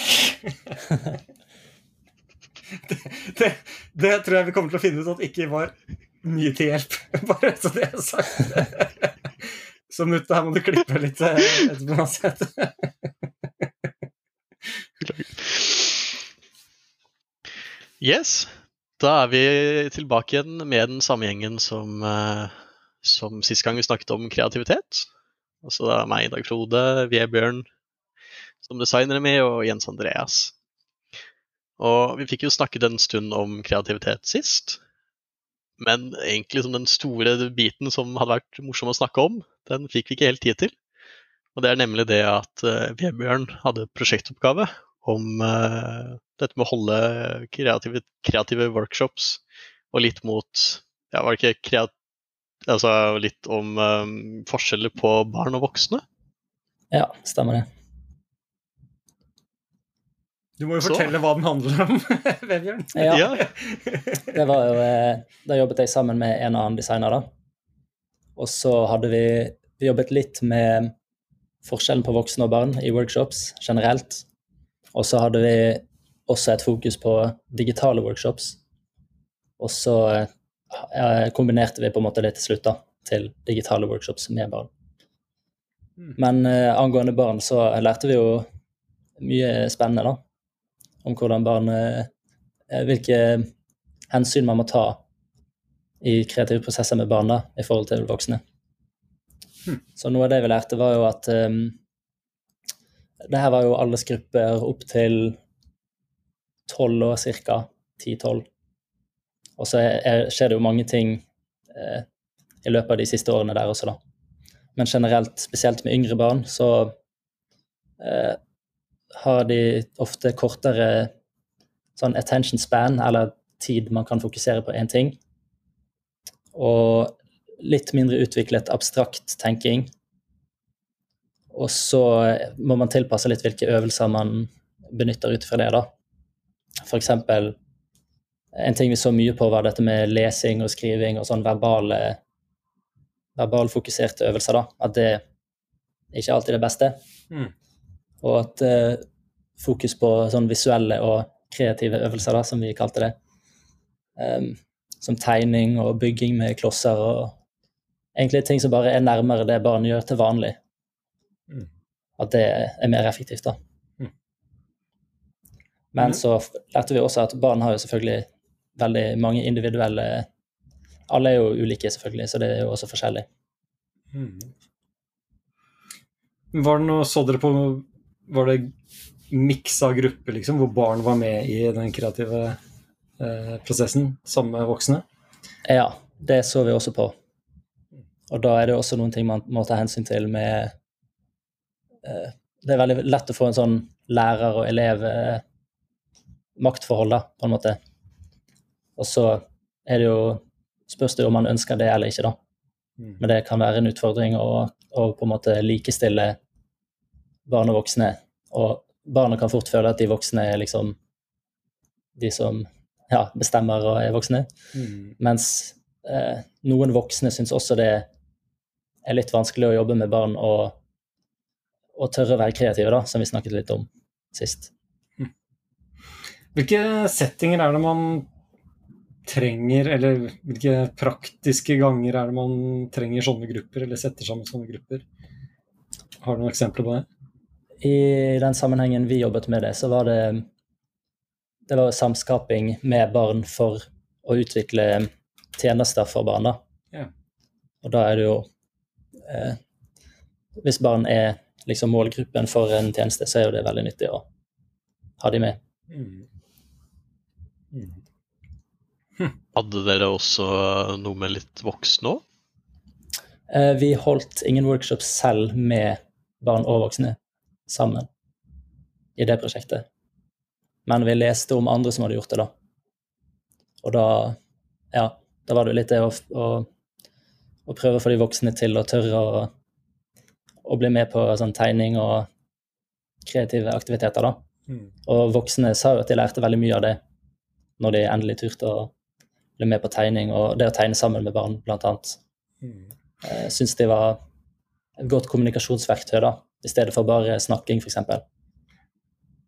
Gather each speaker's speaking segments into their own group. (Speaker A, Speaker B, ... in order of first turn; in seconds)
Speaker A: 2.8-9.1, 9.9-12.9, 60.6-64.4, 174.1-174.5, 176.5-178.7, 179.3-182.6, 183.2-185.0, 214.7-215.1, 226.5-228.3, 229.2-235.0, 236.2-237.1, 255.9-256.2, 257.7-258.0, 292.6-292.9
Speaker B: 15.0-16.2, 18.0-25.1, 25.6-27.6, 28.6-30.5, 31.8-34.8, 35.8-40.7, 41.5-51.9, 52.7-56.0, 60.8-61.1, 63.1-63.4, 259.5-262.2
Speaker C: 56.9-57.6, 63.0-63.2, 64.3-67.2, 68.4-70.9, 71.6-74.2, 74.9-78.6, 79.6-84.7, 86.2-88.4, 89.2-90.2, 91.0-92.1, 92.7-93.4, 94.1-95.0, 96.0-98.4, 100.0-101.7, 103.3-105.3, 106.7-108.4, 109.6-111.2, 111.8-112.0, 112.6-114.0, 114.8-116.9, 118.0-118.3, 119.2-121.1, 122.0-125.2, 126.5-129.9, 131.5-135.9, 136.8-137.5, 138.6-142.2, 143.3-145.2, 146.1-146.9, 148.2-149.0, 149.6-153.1, 154.2-157.3, 158.2-160.6, 162.2-163.6, 165.9-168.2, 168.8-170.2, 171.1-173.2, 185.7-187.1, 188.3-190.7, 192.0-195.4, 196.6-197.8, 199.0-202.3, 203.2-206.3, 207.5-210.9, 212.2-214.4, 215.2-218.0, 219.0-220.8, 222.0-224.7, 237.8-240.4, 241.7-246.6, 247.8-248.4, 249.3-249.6, 250.6-254.2, 255.2-255.6, 263.5-267.1, 267.7-268.1, 269.2-269.8, 270.9-272.5, 273.8-274.3, 274.9-276.6, 277.7-279.5, 280.6-282.2, 283.3-284.4, 285.1-287.0, 287.8-288.9, 289.6-292.2, 293.2-294.2, 295.0-298.2